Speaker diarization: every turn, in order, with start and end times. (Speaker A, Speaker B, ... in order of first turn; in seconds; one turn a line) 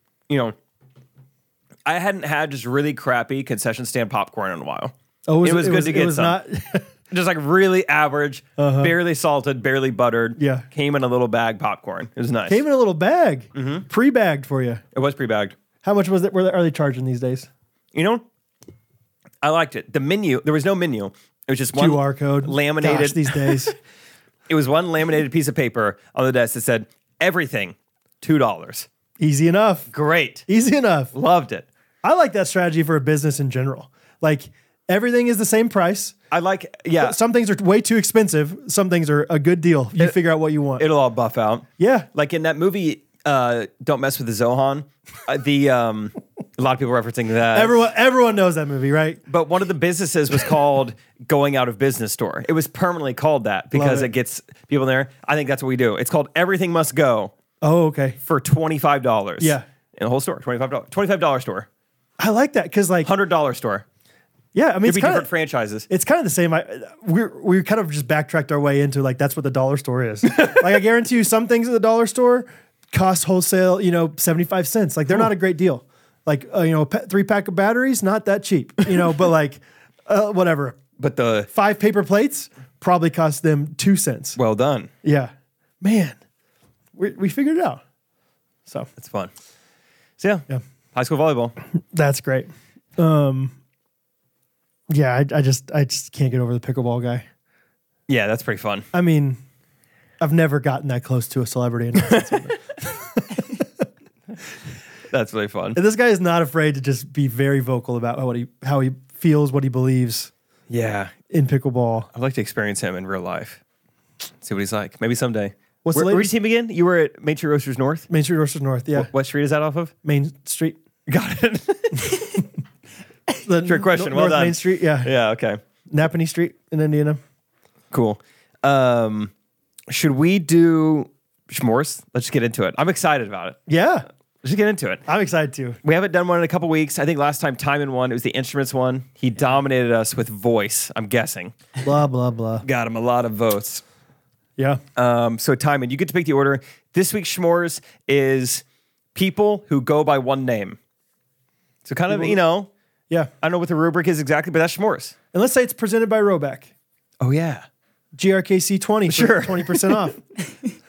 Speaker A: 0.3-0.5
Speaker A: 1.8-4.9
Speaker B: 5.3-6.9
Speaker A: 5.4-6.4
Speaker A: 7.1-12.6
Speaker B: 8.6-8.9
Speaker B: 10.4-10.6
Speaker B: 12.5-14.8
Speaker A: 13.5-13.8
Speaker A: 14.9-15.6
Speaker B: 15.8-17.5
Speaker A: 17.9-18.2
Speaker A: 19.4-23.7
Speaker B: 21.7-23.7
Speaker A: 24.5-28.9
Speaker B: 29.2-29.9
Speaker A: 29.9-30.4
Speaker B: 30.5-31.1
Speaker A: 31.1-31.6
Speaker B: 32.0-36.1
Speaker A: 36.3-37.2
Speaker B: 37.0-40.9
Speaker A: 40.8-47.8
Speaker B: 41.8-42.1
Speaker B: 47.5-49.2
Speaker A: 49.3-57.3
Speaker B: 53.7-54.1
Speaker B: 57.6-58.2
Speaker A: 58.2-61.7
Speaker B: 59.4-59.6
Speaker B: 62.2-63.1
Speaker A: 63.0-63.8
Speaker B: 64.5-65.3
Speaker A: 64.8-65.8
Speaker B: 65.9-80.8
Speaker A: 81.0-81.5
Speaker B: 81.5-84.4
Speaker A: 84.3-84.9
Speaker B: 85.0-86.2
Speaker B: 86.9-87.8
Speaker A: 89.0-89.3
Speaker A: 90.2-91.5
Speaker B: 91.8-93.5
Speaker B: 94.9-97.2
Speaker A: 98.1-98.9
Speaker B: 98.9-99.4
Speaker B: 100.2-103.4
Speaker A: 105.1-105.8
Speaker B: 105.7-110.3
Speaker A: 110.7-111.1
Speaker B: 111.3-112.1
Speaker A: 112.1-113.6
Speaker A: 114.4-118.1
Speaker B: 115.8-116.3
Speaker B: 118.1-119.1
Speaker A: 118.9-119.9
Speaker B: 120.0-120.8
Speaker A: 121.1-122.4
Speaker B: 123.4-125.1
Speaker A: 123.6-125.6
Speaker B: 125.9-127.2
Speaker A: 127.9-129.3
Speaker A: 129.9-133.6
Speaker B: 133.7-134.1
Speaker A: 134.4-135.0
Speaker B: 135.1-135.8
Speaker A: 135.8-141.5
Speaker B: 141.8-142.6
Speaker A: 142.6-143.8
Speaker B: 144.6-144.8
Speaker A: 144.9-148.6
Speaker A: 149.1-150.8
Speaker A: 151.8-152.7
Speaker B: 152.1-152.4
Speaker A: 153.4-155.1
Speaker B: 155.3-156.7
Speaker A: 157.2-157.7
Speaker B: 158.1-160.2
Speaker A: 159.1-160.1